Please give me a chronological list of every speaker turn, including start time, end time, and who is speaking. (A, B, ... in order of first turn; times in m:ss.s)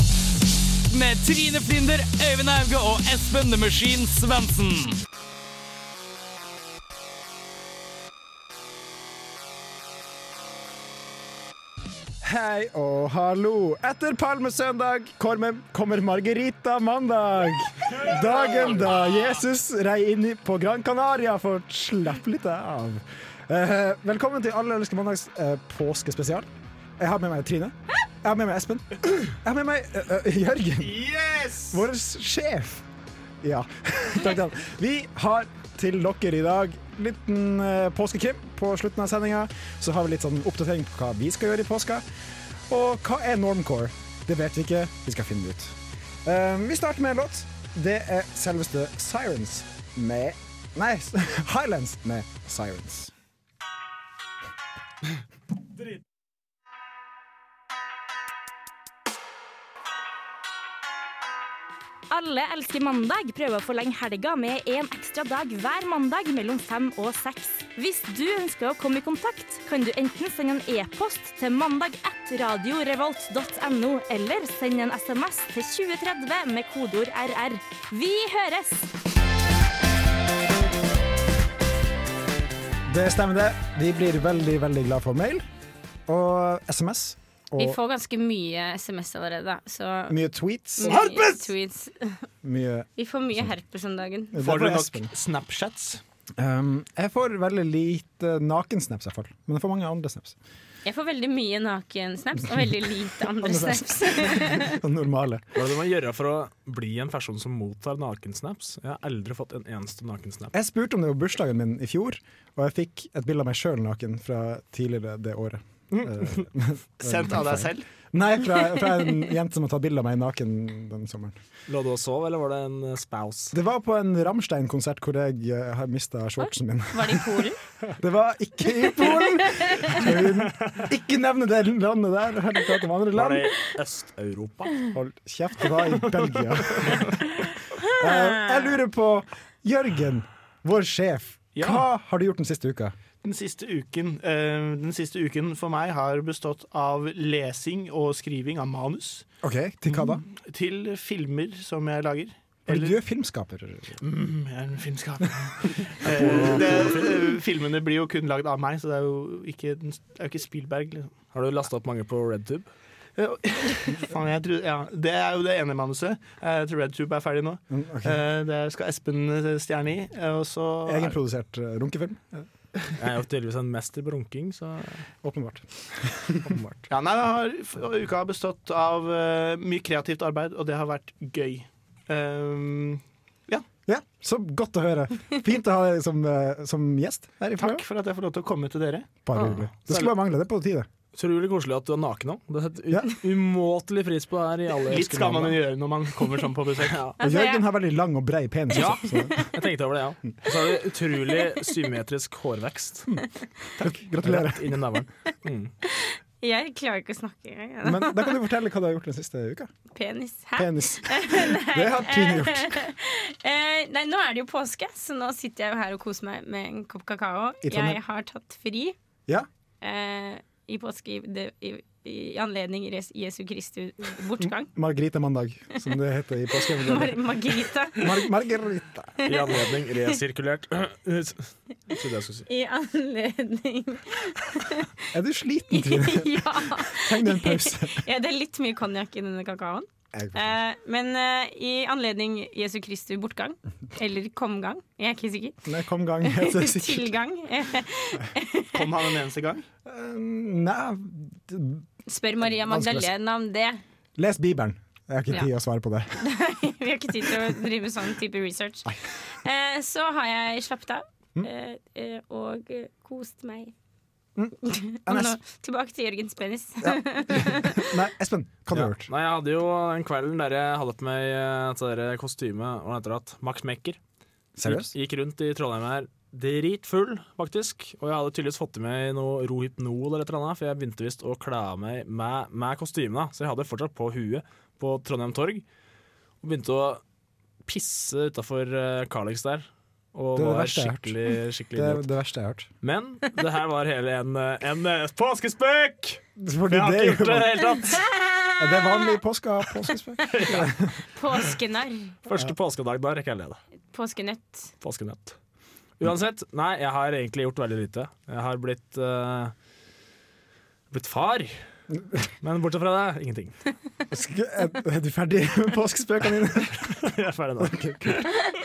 0:00.9-0:05.0 A
0:12.2-0:31.1 B
0:30.9-0:31.6 C
0:31.7-0:32.8 B
0:33.4-0:42.0 B
0:42.7-0:53.1 B
1:02.1-1:18.9 D
1:22.9-1:25.4 B
1:26.1-1:27.8 B
1:27.6-1:30.2 E
1:30.1-1:31.0 B
1:30.8-1:32.3 E
1:32.4-1:33.5 B
1:33.0-1:34.4 E
1:34.3-1:35.1 B
1:34.4-1:36.0 F
1:36.4-1:40.4 B
1:40.8-1:44.8 E
1:43.4-1:45.4 B
1:45.6-1:50.5 C
1:50.5-2:01.4 B
1:57.0-1:57.9 F
2:01.7-2:03.5 C
2:03.5-2:07.5 B
2:06.4-2:07.6 E
2:08.0-2:13.5 B
2:09.0-2:10.0 E
2:10.5-2:10.8 C
2:13.1-2:14.8 C
2:14.9-2:17.2 B
2:17.8-2:18.7 E
2:18.0-2:23.0 B
2:21.6-2:21.8 F
2:23.2-2:29.3 F
2:29.4-2:30.2 B
2:30.0-2:33.0 F
2:32.7-2:34.0 B
2:34.0-2:41.1 F
2:36.1-2:37.3 C
2:41.3-2:42.7 C
2:43.2-2:51.2 F
2:47.7-2:48.2 B
2:50.9-2:52.5 B
2:53.0-2:55.0 C
2:55.2-2:56.6 B
2:56.4-2:56.8 C
2:56.9-3:03.6 F
3:03.9-3:07.8 B
3:07.6-3:09.1 F
3:09.2-3:10.9 B
3:09.5-3:10.1 C
3:11.1-3:15.6 C
3:14.8-3:17.0 F
3:16.8-3:17.2 C
3:17.2-3:17.7 E
3:17.2-3:19.5 B
3:18.7-3:23.1 C
3:23.8-3:24.8 B
3:24.2-3:25.7 C
3:25.8-3:28.4 E
3:27.8-3:29.7 B
3:29.9-3:39.0 E
3:30.6-3:32.8 B
3:37.6-3:38.0 B
3:39.8-3:44.7 E
3:44.4-3:47.4 B
3:46.6-3:48.2 E
3:48.0-3:49.1 B
3:49.2-3:52.5 C
3:52.5-3:54.9 E
3:55.1-3:58.0 B
3:55.7-4:05.6 E
4:00.1-4:00.6 B
4:05.6-4:07.2 B
4:06.2-4:08.8 E
4:08.7-4:09.6 F
4:09.8-4:11.8 B
4:12.1-4:13.8 E
4:12.5-4:13.1 B
4:14.2-4:16.2 B
4:16.2-4:23.7 E
4:24.4-4:25.4 B
4:24.6-4:27.9 E
4:26.8-4:29.1 B
4:28.7-4:34.0 C
4:34.6-4:34.9 B
4:34.6-4:45.6 C
4:46.4-4:47.0 C
4:47.6-4:52.1 C
4:50.4-4:52.7 B
4:52.8-4:58.0 C
4:56.4-4:57.9 B
4:58.6-5:00.9 B
5:00.3-5:00.6 C
5:00.3-5:02.2 E
5:02.3-5:03.6 C
5:03.9-5:04.7 E
5:04.8-5:05.4 C
5:06.0-5:09.5 C
5:10.9-5:11.6 C
5:12.4-5:13.6 C
5:14.1-5:17.0 B
5:16.9-5:18.3 C
5:17.6-5:18.3 B